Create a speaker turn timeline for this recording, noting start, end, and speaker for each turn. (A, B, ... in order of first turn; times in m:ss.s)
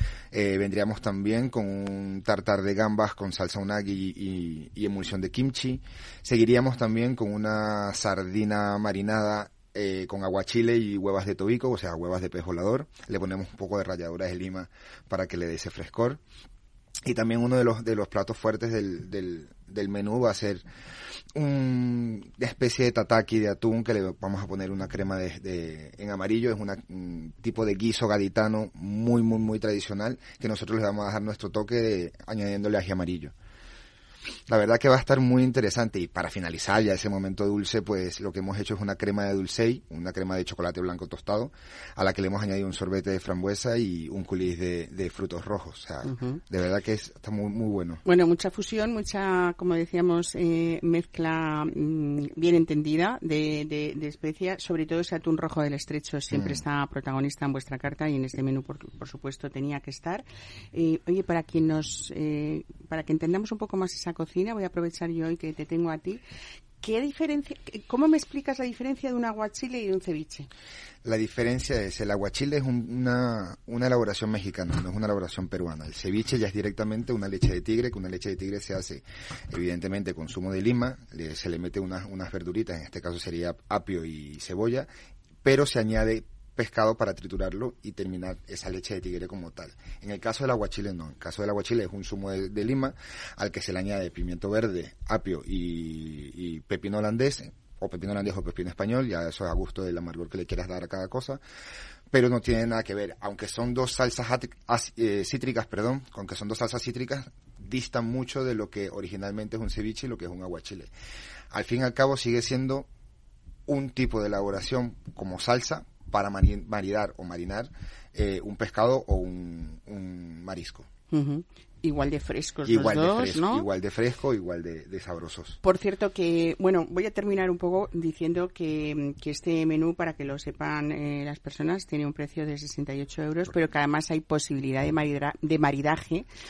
0:00.3-0:16.2 A
0:17.1-0:20.6 A
0:21.4-0:33.3 A
0:34.5-0:48.0 A
0:46.1-0:46.4 B
0:48.0-1:06.2 B
0:56.3-0:56.6 A
1:06.8-1:10.5 B
1:11.0-1:24.9 A
1:25.4-1:41.4 A
1:42.1-1:50.9 A
1:51.5-1:52.9 A
1:53.7-2:00.9 A
2:01.1-2:03.6 B
2:02.7-2:05.6 A
2:05.6-2:16.3 B